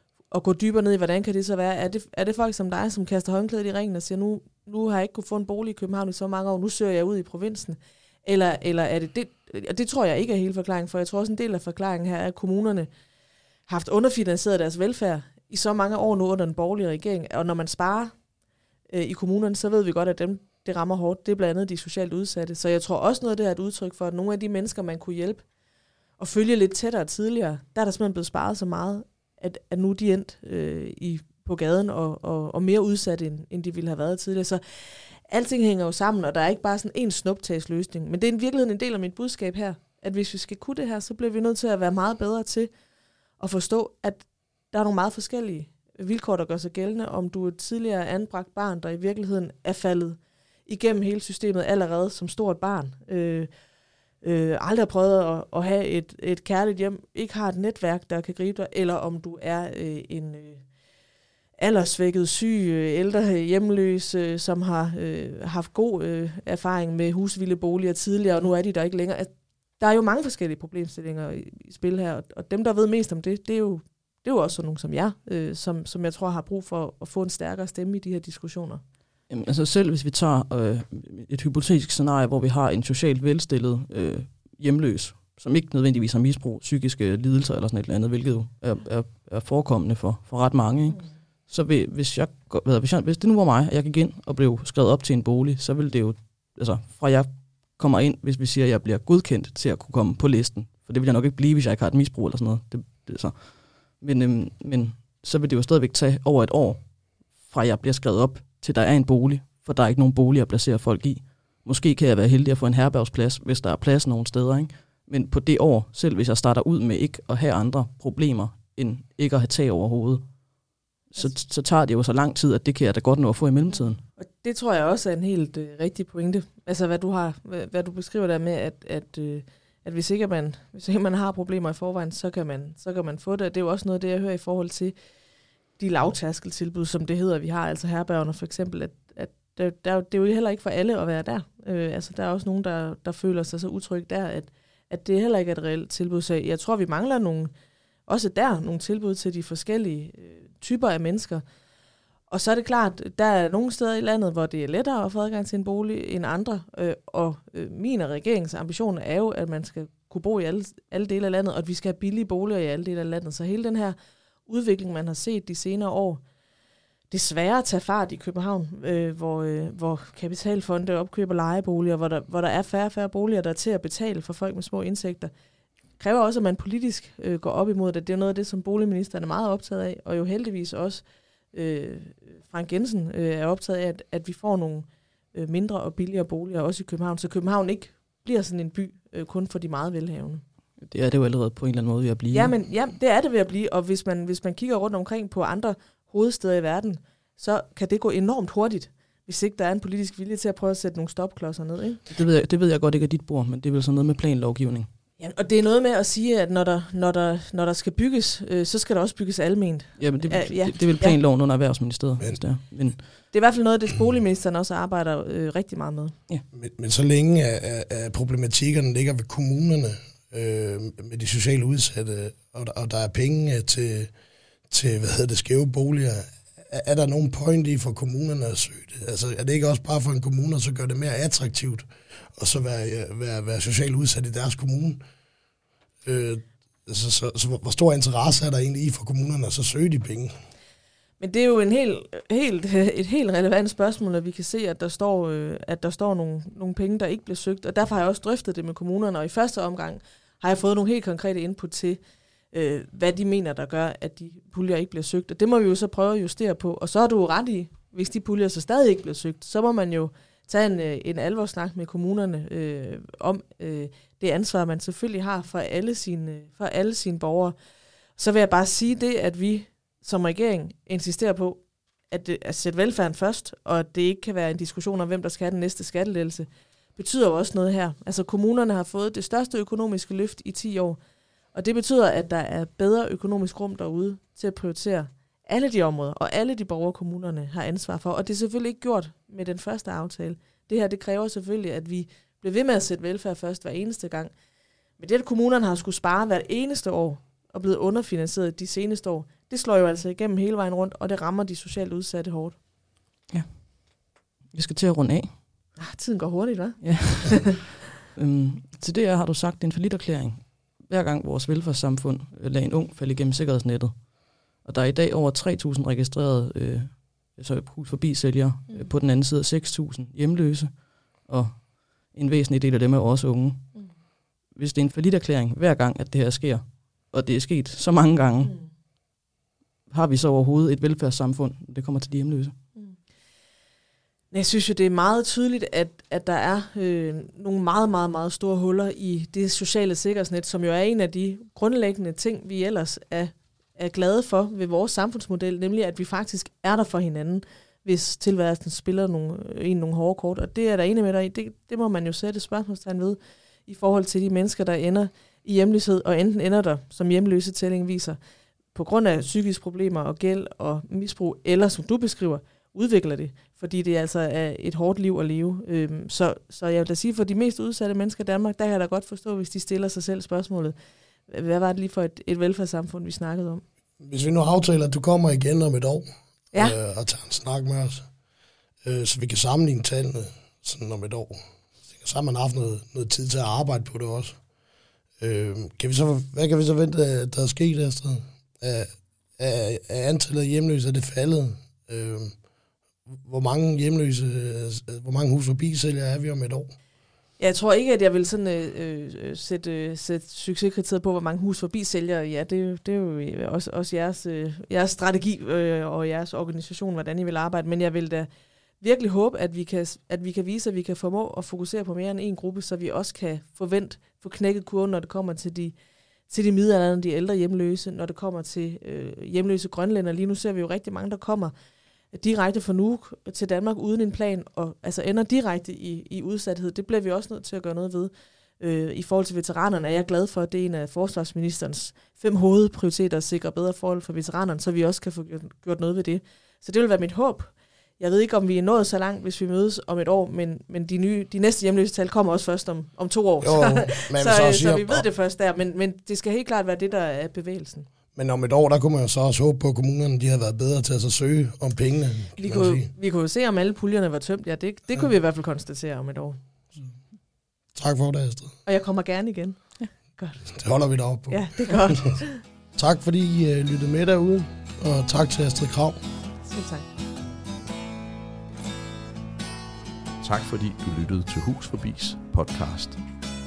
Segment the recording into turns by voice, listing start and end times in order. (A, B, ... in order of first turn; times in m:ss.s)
0:00.3-0:12.9 A
0:13.7-0:18.1 A
0:18.9-0:25.4 A
0:26.2-0:42.7 A
0:43.4-0:53.5 A
0:54.2-1:00.6 A
1:01.6-1:18.8 A
1:19.3-2:00.2 B
2:01.1-2:04.0 B
2:04.2-2:14.9 A
2:15.8-2:27.5 A
2:28.1-2:31.4 A
2:32.3-2:44.0 A
2:44.5-2:46.2 A
2:47.1-2:55.3 A
2:56.0-3:10.4 A
3:10.8-3:12.5 B
3:12.3-3:22.0 A
3:22.1-3:24.9 B
3:25.2-3:31.2 A
3:30.0-3:33.0 B
3:33.3-3:36.1 A
3:36.5-3:44.1 C
3:44.7-3:55.0 C
3:56.0-4:00.3 C
4:01.2-4:12.0 A
4:12.5-4:27.5 A
4:28.2-4:41.0 A
4:41.5-4:54.3 A
4:55.0-5:02.6 A
5:03.3-5:05.4 B
5:05.8-5:07.5 A
5:06.8-5:23.7 B
5:24.5-5:28.6 B
5:28.4-5:28.7 A
5:29.9-5:32.6 B
5:34.3-5:58.2 A
5:58.7-6:10.7 A
6:11.3-6:13.6 A
6:14.0-6:18.1 C
6:18.8-6:24.4 C
6:25.2-6:32.3 C
6:33.1-6:36.7 C
6:37.4-6:48.3 A
6:48.8-6:55.7 A
6:56.3-7:01.5 A
7:02.1-7:27.8 A
7:23.4-7:25.0 C
7:28.1-7:32.9 C
7:32.4-7:36.4 A
7:37.7-7:38.5 C
7:38.6-7:40.4 A
7:40.4-7:42.2 C
7:41.3-7:42.4 A
7:42.8-7:46.0 C
7:46.4-7:46.8 A
7:50.2-7:53.0 D